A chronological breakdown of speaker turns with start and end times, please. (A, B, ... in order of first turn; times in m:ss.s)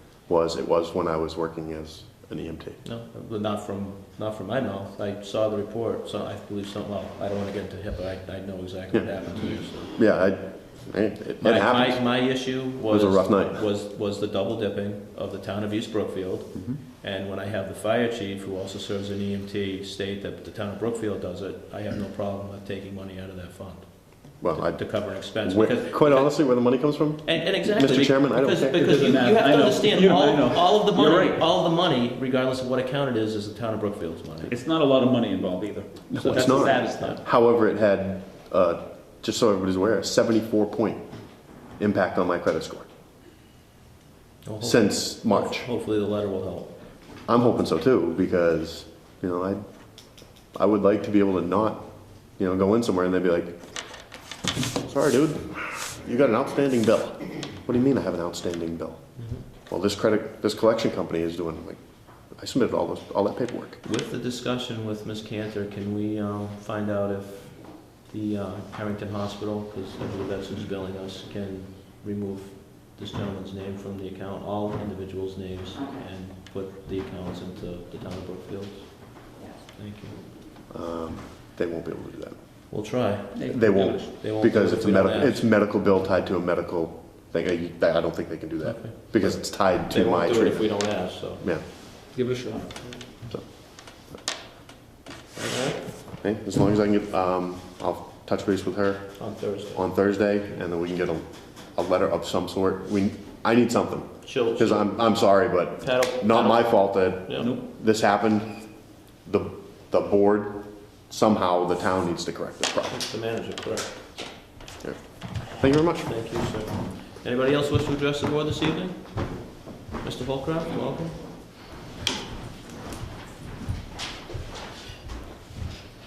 0:00.3-0:02.8 A
0:02.8-0:10.0 B
0:10.0-0:12.2 A
0:11.4-0:34.5 B
0:12.9-0:13.6 A
0:24.4-0:28.8 A
0:28.5-0:31.5 C
0:34.5-0:37.2 C
0:36.1-0:41.0 A
0:36.2-0:37.2 B
0:41.8-0:42.9 A
0:44.4-0:46.7 B
0:44.6-0:45.7 A
0:47.3-0:49.7 A
0:50.5-0:51.9 A
0:52.4-0:53.6 A
0:54.8-0:59.0 A
0:59.2-0:59.4 B
0:59.7-1:03.8 A
1:03.8-1:20.2 B
1:20.7-1:22.4 A
1:22.7-1:25.4 B
1:23.4-1:24.1 C
1:23.5-1:30.9 A
1:28.6-1:32.0 B
1:32.2-1:32.7 C
1:35.4-1:35.9 B
1:36.2-1:48.6 A
1:39.2-1:39.8 B
1:44.2-1:45.2 B
1:45.8-1:47.5 B
1:49.2-1:53.0 A
1:52.9-1:54.0 B
1:54.8-1:56.1 A
1:56.0-2:01.2 B